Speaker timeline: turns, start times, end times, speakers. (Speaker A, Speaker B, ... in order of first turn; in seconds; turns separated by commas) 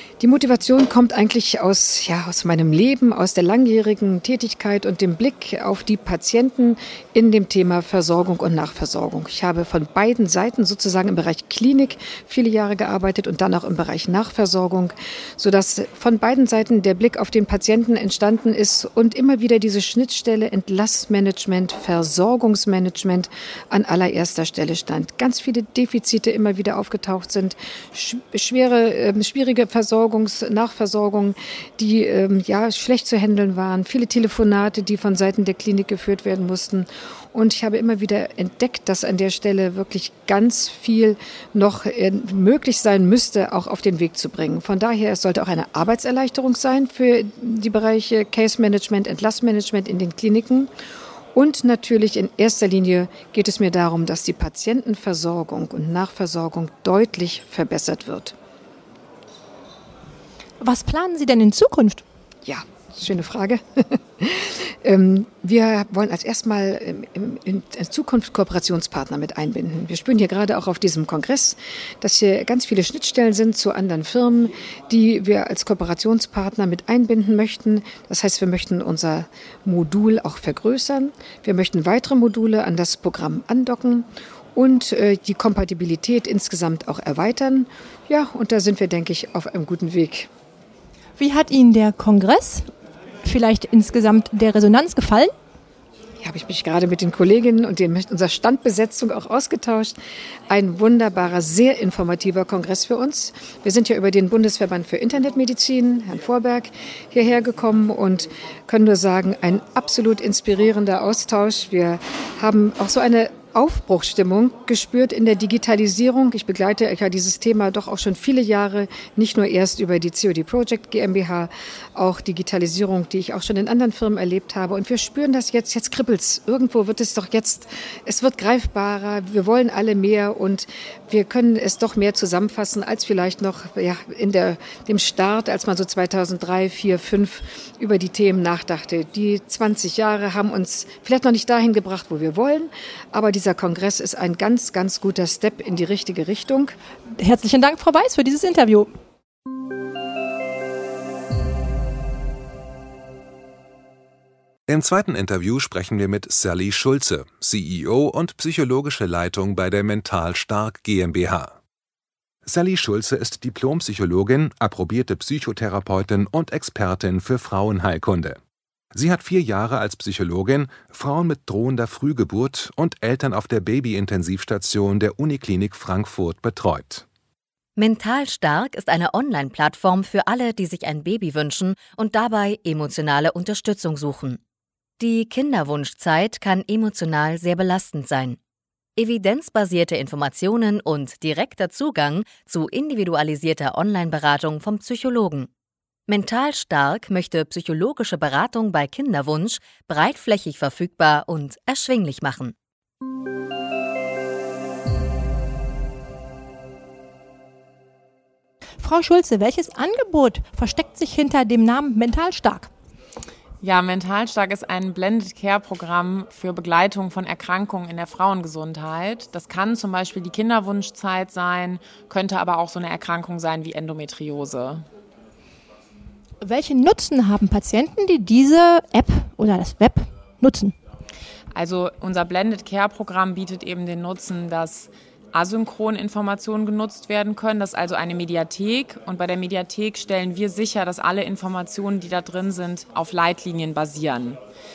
Speaker A: 0.2-50.7, Speaker A: 51.4-58.3, Speaker B: 60.6-62.0, Speaker A: 62.5-90.3, Speaker B: 91.2-92.7, Speaker B: 93.2-95.3, Speaker A: 96.2-100.0, Speaker A: 100.5-146.8, Speaker B: 147.2-148.9, Speaker C: 154.7-161.5, Speaker C: 162.5-168.4, Speaker C: 168.9-177.0, Speaker D: 177.8-184.4, Speaker D: 185.0-188.4, Speaker D: 189.0-195.5, Speaker D: 196.1-202.5, Speaker B: 208.8-212.7, Speaker E: 213.6-224.9, Speaker B: 226.4-230.8, Speaker E: 231.5-244.4